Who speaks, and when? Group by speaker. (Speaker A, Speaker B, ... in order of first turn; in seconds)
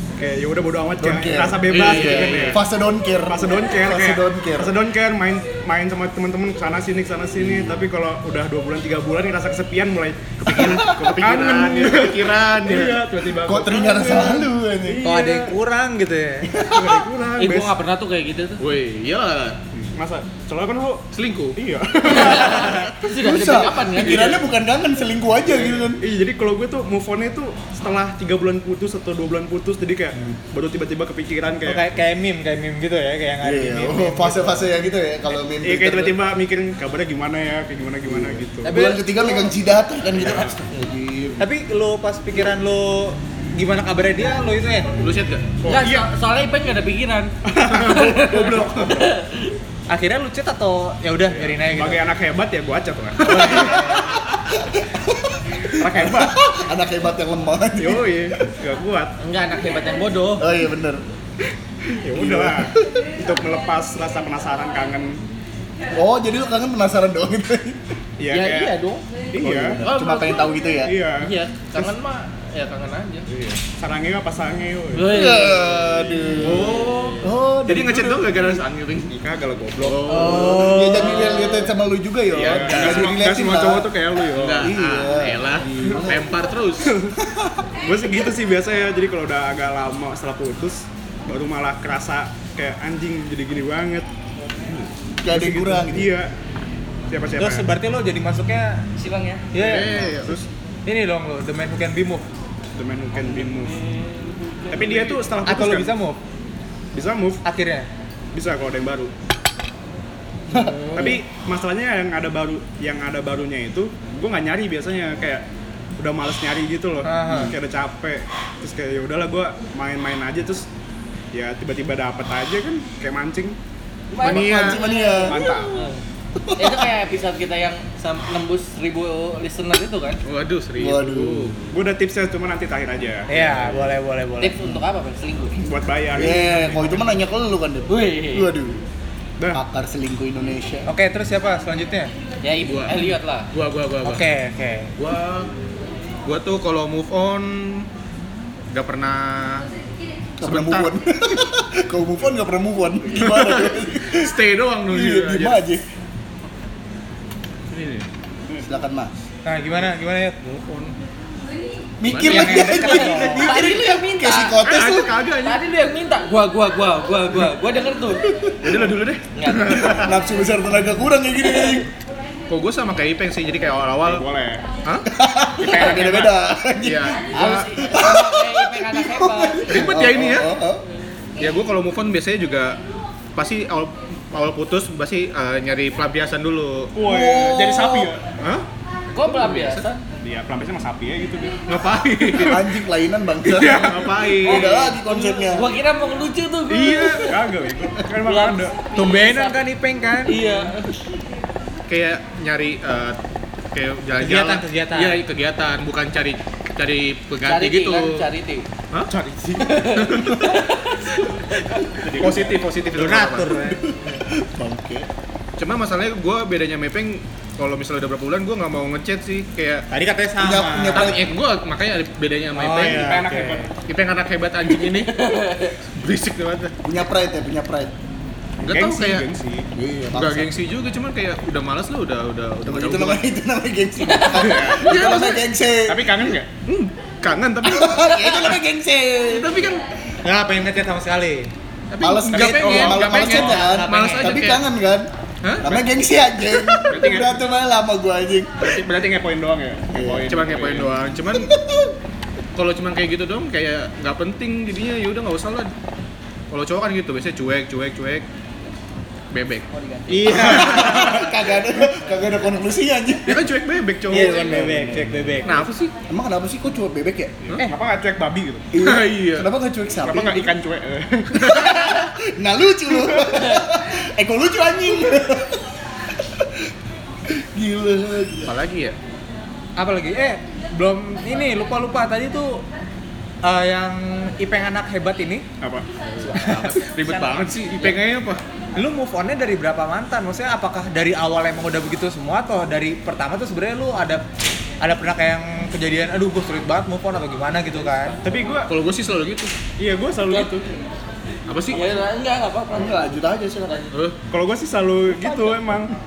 Speaker A: 0.2-2.6, 3.2-15.4, 16.6-17.8, 19.7-22.9, 25.5-31.9, 35.6-38.8, 40.1-40.6, 45.6-46.0, 47.5-49.1, 51.3-54.0, 55.7-56.4, 57.8-59.2, 62.0-65.2, 68.2-68.8, 69.3-69.8, 70.8-71.9, 73.3-75.4, 76.4-76.9, 79.1-80.3, 82.3-84.7, 85.8-86.0, 86.9-87.1, 87.8-94.1, 95.3-96.3, 97.1-97.7, 99.6-100.5, 102.8-103.8, 104.7-106.0, 106.9-107.4, 108.3-109.1, 110.9-115.5, 116.0-120.7, 121.3-123.6, 124.2-125.8, 131.7-133.8, 135.6-137.2, 174.0-174.6, 175.7-176.2, 186.9-188.4, 190.2-191.6, 192.2-192.5, 193.5-194.8, 196.7-198.8, 209.1-209.9, 211.9-212.9, 222.8-223.7, 228.6-229.7, 234.4-234.8, 235.9-236.5, 242.3-243.6, 246.9-247.3, 248.6-250.9, 260.4-261.3, 264.1-265.3, 267.5-268.7, 270.0-271.8, 285.6-285.9, 298.2-298.7, 299.8-300.6, 304.3-305.9
Speaker B: 1.0-4.7, 10.5-11.1, 13.4-15.1, 16.5-17.0, 23.2-26.0, 33.4-36.2, 38.1-41.5, 54.5-58.1, 60.4-61.0, 62.1-63.0, 65.9-67.8, 69.3-71.0, 75.1-78.4, 80.5-83.9, 84.6-86.3, 87.2-87.7, 95.2-96.1, 110.5-111.2, 124.2-125.7, 126.4-126.9, 130.8-131.6, 136.1-138.8, 139.5-140.9, 150.4-154.3, 154.9-155.8, 158.6-159.1, 162.0-165.1, 168.3-168.9, 169.7-171.9, 175.1-180.8, 192.4-195.7, 213.7-215.1, 220.4-221.2, 226.8-227.9, 229.7-230.6, 232.7-236.1, 237.6-239.7, 242.0-245.1, 245.6-248.8, 249.9-250.3, 251.4-251.9, 260.3-263.5, 264.1-265.3, 266.1-267.4, 268.7-270.5, 271.5-275.6, 276.2-276.7, 277.3-278.6, 302.7-303.9, 305.2-305.7
Speaker C: 1.7-2.6, 10.4-13.1, 18.6-19.6, 21.1-21.6, 45.0-45.5, 76.4-79.2, 79.8-81.5, 82.3-83.2, 84.3-86.9, 99.5-100.4, 124.2-124.8, 130.2-131.7, 142.7-144.2, 145.0-145.5, 146.2-147.9, 148.7-149.7, 150.4-150.9, 153.2-155.6, 157.7-158.1, 160.7-161.0, 162.1-162.7, 164.6-165.6, 168.6-170.1, 172.5-174.3, 175.6-177.6, 179.7-180.5, 181.4-182.8, 183.3-186.9, 189.2-189.9, 191.7-192.7, 193.6-194.8, 201.9-203.2, 203.7-208.2, 210.0-210.5, 212.2-213.6, 215.6-219.9, 220.9-223.2, 223.8-225.1, 226.0-226.7, 228.6-229.3, 230.1-233.2, 234.3-235.4, 236.2-238.6, 239.3-239.8, 241.9-244.6, 250.3-251.5, 252.6-255.7, 256.5-258.2, 259.3-261.2, 263.3-264.8, 265.4-265.9, 268.8-269.5, 271.6-271.9, 278.5-279.0, 286.0-288.4, 298.7-299.5, 301.5-301.8, 303.9-304.2
Speaker D: 15.0-16.5, 31.6-34.7, 38.7-39.5, 41.4-45.0, 49.9-52.0, 53.2-54.2, 80.1-81.4, 97.4-98.8, 99.5-100.3, 100.9-102.2, 105.5-106.2, 107.4-107.9, 110.5-111.2, 117.0-117.5, 133.3-134.6, 140.9-142.1, 144.0-144.9, 159.4-160.6, 162.2-163.6, 198.9-200.4, 204.2-205.2, 212.9-213.8, 219.9-221.2, 222.6-223.7, 240.2-241.5, 243.2-244.4, 260.1-261.2, 264.1-265.5, 279.8-282.6, 283.4-285.5, 286.3-287.9, 288.8-294.2, 294.8-298.2
Speaker E: 15.2-15.5, 17.4-18.6, 22.1-24.5, 45.6-49.5, 59.2-60.5, 68.3-69.1, 69.8-70.5, 71.2-73.3, 74.9-75.9, 76.5-77.0, 81.0-81.4, 99.0-99.5, 103.2-105.3, 124.1-126.0, 126.6-130.2, 134.4-135.7, 137.9-138.5, 142.4-143.5, 162.7-164.6, 165.4-168.2, 169.4-170.1, 177.3-179.9, 187.1-188.1, 189.1-190.0, 194.5-197.4, 198.2-199.6, 200.2-200.9, 207.4-208.7, 209.6-211.1, 225.0-225.8, 234.0-234.4, 297.8-298.2, 300.3-300.6, 301.7-303.0